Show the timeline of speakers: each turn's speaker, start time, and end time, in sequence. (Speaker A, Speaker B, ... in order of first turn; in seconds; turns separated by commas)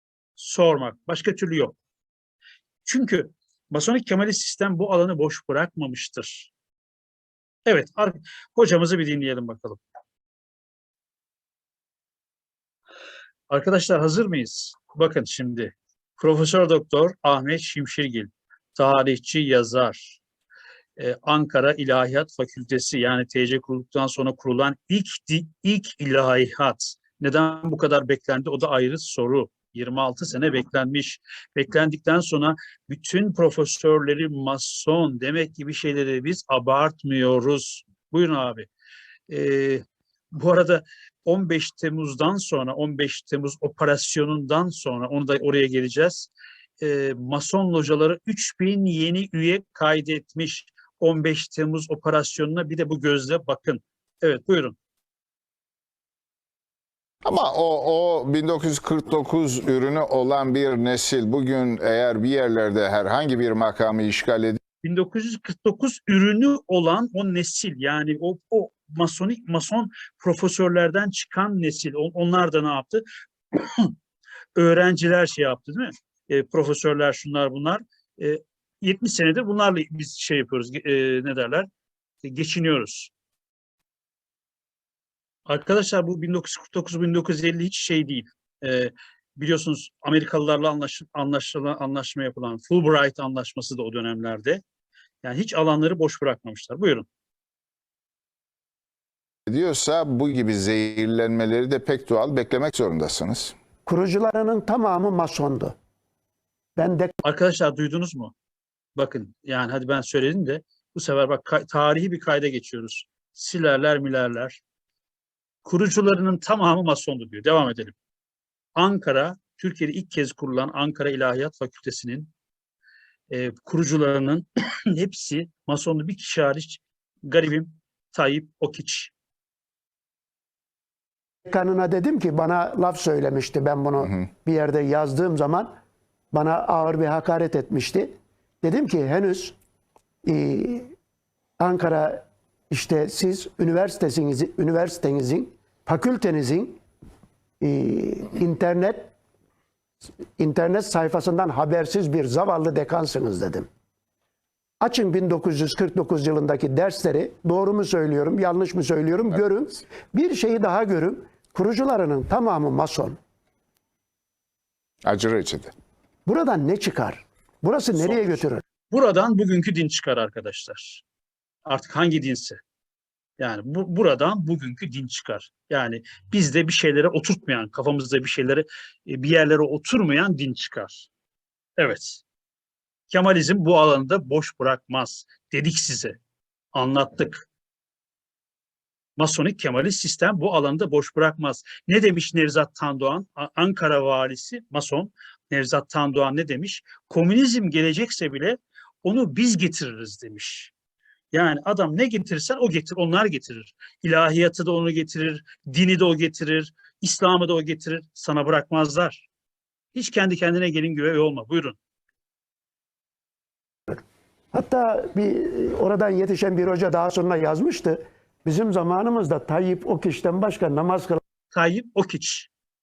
Speaker A: 0.4-1.8, Speaker A: 2.9-6.5, Speaker A: 7.7-9.8, Speaker A: 13.5-20.2, Speaker A: 21.0-38.7, Speaker A: 39.3-54.8, Speaker B: 57.2-64.6, Speaker A: 64.8-73.9, Speaker A: 74.5-81.7, Speaker A: 82.2-83.1, Speaker A: 85.5-94.6, Speaker A: 95.2-97.1, Speaker B: 99.5-103.5, Speaker C: 103.8-105.7, Speaker C: 106.8-107.1, Speaker A: 107.2-108.3, Speaker A: 109.0-114.6, Speaker A: 115.6-118.0, Speaker A: 118.8-122.3, Speaker A: 123.3-129.1, Speaker C: 131.4-135.8, Speaker C: 136.3-139.6, Speaker C: 140.2-140.9, Speaker C: 141.6-146.8, Speaker C: 147.6-149.1, Speaker C: 150.4-153.7, Speaker C: 154.8-163.2, Speaker B: 165.0-165.7, Speaker C: 166.2-168.6, Speaker A: 168.9-171.0, Speaker A: 171.7-172.6, Speaker A: 173.4-181.1, Speaker A: 181.8-182.2, Speaker A: 183.1-186.2, Speaker A: 186.7-187.4, Speaker A: 189.2-200.7, Speaker A: 201.3-209.3, Speaker A: 209.9-211.8, Speaker C: 214.5-221.2, Speaker A: 221.5-222.5